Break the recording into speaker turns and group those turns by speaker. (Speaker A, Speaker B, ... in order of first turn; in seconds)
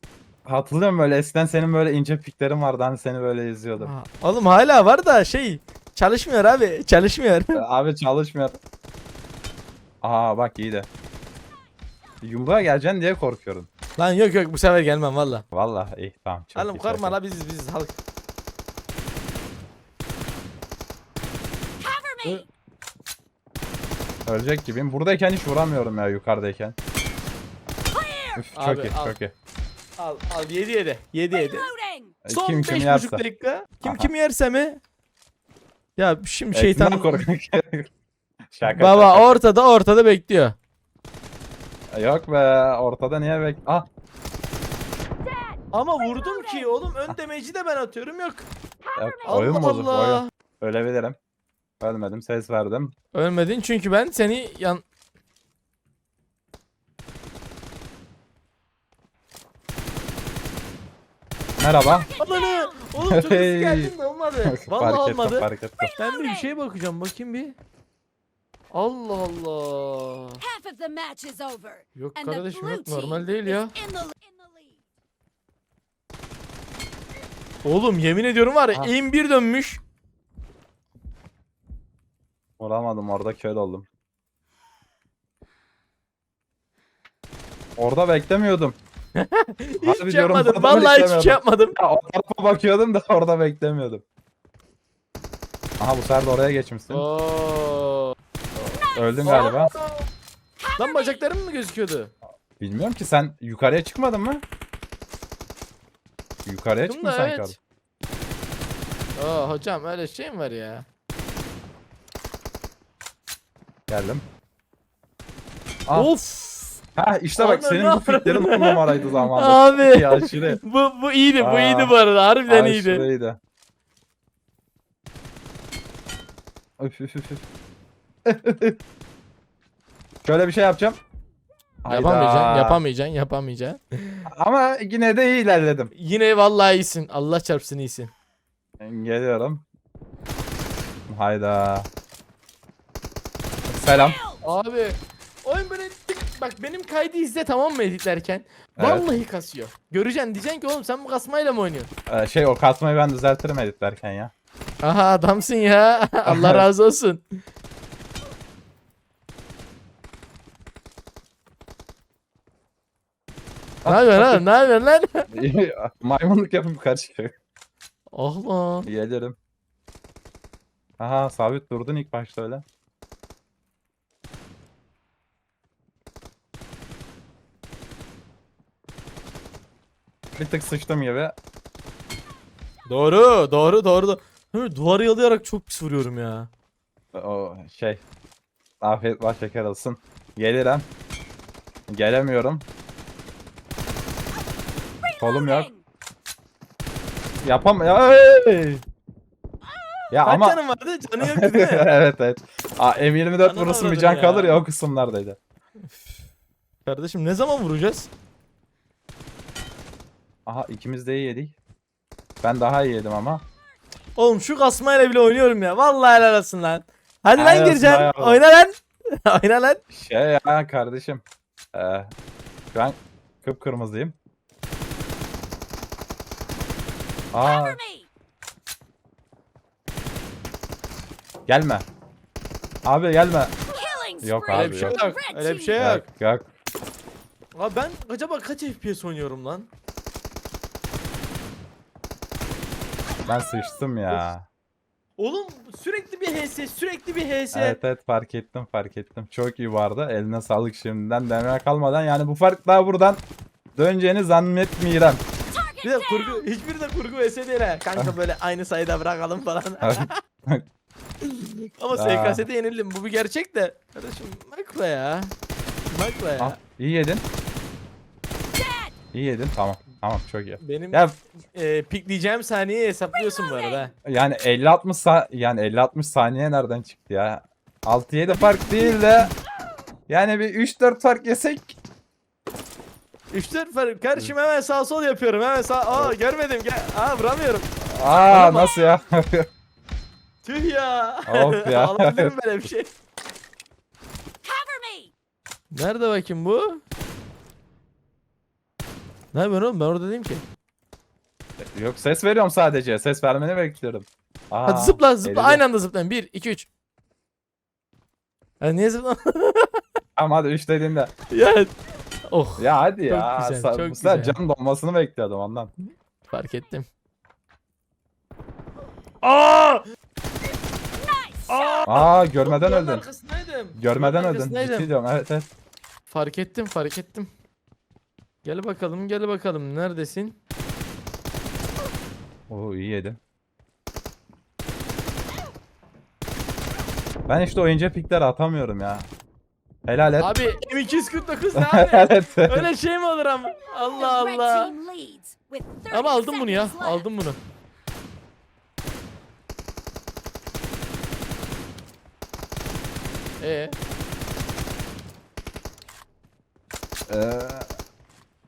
Speaker A: 0.5-3.9, 7.5-8.6, 10.0-10.9, 12.2-13.7, 15.5-17.2, 24.3-26.8, 28.4-29.3, 32.2-33.2, 33.8-34.1, 36.5-37.9, 38.5-39.4, 41.9-43.9, 49.0-51.2, 51.8-53.0, 61.6-62.1, 63.0-63.9, 64.5-65.9, 82.6-83.9, 87.8-88.8, 89.8-94.0, 95.8-97.1, 98.9-99.7, 102.6-104.4, 106.5-107.6, 113.9-114.2, 117.0-120.6, 121.4-121.9, 122.5-123.4, 126.8-127.4, 128.3-128.8, 130.2-131.0, 131.8-132.8, 134.3-135.9, 138.8-139.6, 141.1-141.9, 143.7-144.2, 148.8-149.1, 152.1-154.3, 156.3-156.7, 163.8-164.4, 165.3-167.3, 168.9-169.4, 171.0-172.6, 180.4-181.3, 187.1-188.0, 188.8-190.9, 191.9-192.7, 195.2-195.7, 197.4-198.8, 200.1-200.6, 201.2-205.4, 210.5-211.5, 212.4-213.4, 217.4-218.4, 219.9-221.2, 221.7-222.1, 222.7-224.2, 227.3-227.8, 231.5-231.8, 232.8-233.5, 234.2-235.0, 235.8-236.5, 243.3-244.5, 247.5-253.2, 253.8-255.2, 259.8-260.6, 261.9-262.5, 266.4-267.2, 269.1-271.2, 274.1-279.3, 280.1-281.8, 287.8-289.5, 291.3-292.3, 301.6-305.6, 310.2-311.1, 312.6-315.7, 321.9-323.1, 323.8-325.5, 332.5-333.2, 337.3-339.1, 339.9-340.3, 341.6-342.7, 357.1-357.7
Speaker B: 3.8-7.6, 14.0-15.4, 16.6-18.0, 28.6-29.2, 30.0-31.7, 32.3-34.8, 36.0-37.2, 38.7-40.6, 45.7-48.5, 49.3-50.3, 53.1-54.8, 62.2-67.5, 68.7-70.4, 72.0-73.7, 77.7-79.8, 89.2-91.8, 96.9-98.2, 99.2-100.1, 100.8-102.1, 106.9-107.5, 109.2-110.9, 115.9-116.8, 117.4-123.1, 131.9-134.3, 135.9-138.1, 144.4-151.9, 154.8-157.2, 163.9-165.3, 168.1-168.9, 182.9-186.5, 200.3-201.9, 203.4-204.6, 206.9-208.1, 214.2-219.8, 234.5-236.1, 237.6-239.7, 245.2-247.8, 255.8-260.2, 261.2-265.3, 265.9-266.6, 270.6-271.0, 271.6-273.9, 278.3-279.1, 283.3-287.7, 288.3-288.7, 290.4-292.9, 295.7-296.8, 299.3-300.4, 304.7-306.7, 308.6-309.8, 311.3-311.7, 312.3-314.4, 316.3-316.9, 319.2-319.9, 321.5-324.9, 326.1-327.3, 328.4-330.4, 340.2-344.7, 345.9-347.4, 353.4-353.8
Speaker C: 21.8-22.5, 27.9-28.4, 31.3-32.2, 45.2-46.7, 48.9-49.6, 62.0-62.8, 65.8-66.5, 70.4-74.8, 98.9-99.5, 100.6-101.2, 143.9-144.4, 195.0-195.8, 227.4-228.1, 233.7-235.8, 255.5-256.4, 268.6-268.9, 273.2-273.9, 294.4-295.1, 321.0-321.9, 343.9-347.1